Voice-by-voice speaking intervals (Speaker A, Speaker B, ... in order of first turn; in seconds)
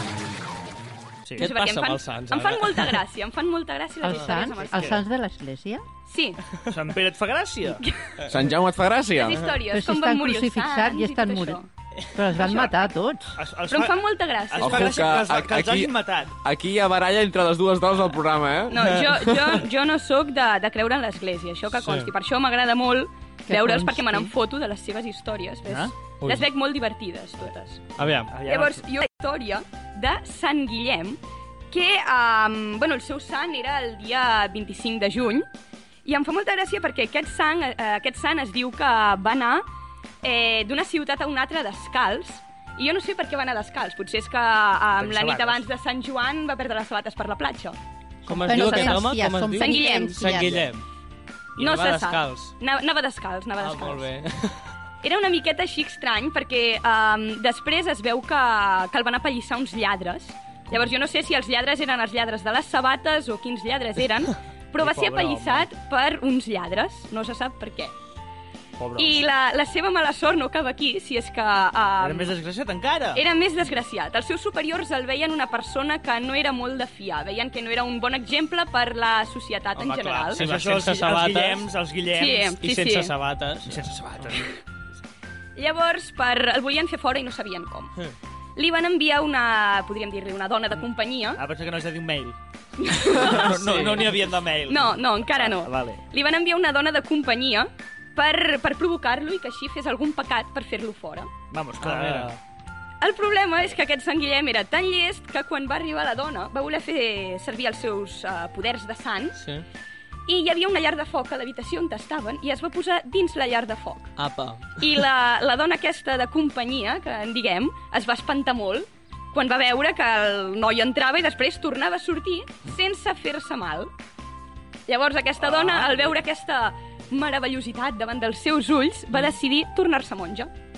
Speaker A: 1.4-3.0, 18.8-19.6, 21.7-22.1, 28.0-28.3, 48.3-50.8, 51.6-52.5, 53.6-54.7, 79.8-81.7, 82.6-83.8, 93.5-94.1, 101.8-102.3, 109.3-109.6, 114.2-115.0, 125.4-126.2
Speaker B: 1.4-5.0, 6.1-6.4, 7.8-8.2, 9.2-11.7, 12.3-12.7, 13.7-15.1, 18.7-27.8, 28.4-31.2, 31.7-35.5, 36.0-39.6, 40.2-47.8, 48.4-50.3, 51.6-54.1, 55.0-67.9, 69.0-72.4, 73.1-80.5, 82.1-83.1, 85.5-87.9, 88.5-91.4, 92.8-101.3, 103.0-109.4, 110.3-114.1, 114.8-123.9, 124.9-130.5
Speaker C: 4.0-5.8, 9.7-11.6, 12.1-13.3, 23.5-24.3, 48.3-50.6
Speaker D: 4.5-5.0, 6.7-7.8, 13.3-14.0, 14.5-16.3, 25.6-25.9, 28.3-28.8, 45.0-45.6, 64.8-65.7, 68.8-69.2, 72.0-73.2, 79.9-82.6, 83.6-84.5, 91.3-92.4, 93.0-96.0, 101.5-102.4
Speaker E: 8.2-9.5, 14.6-19.0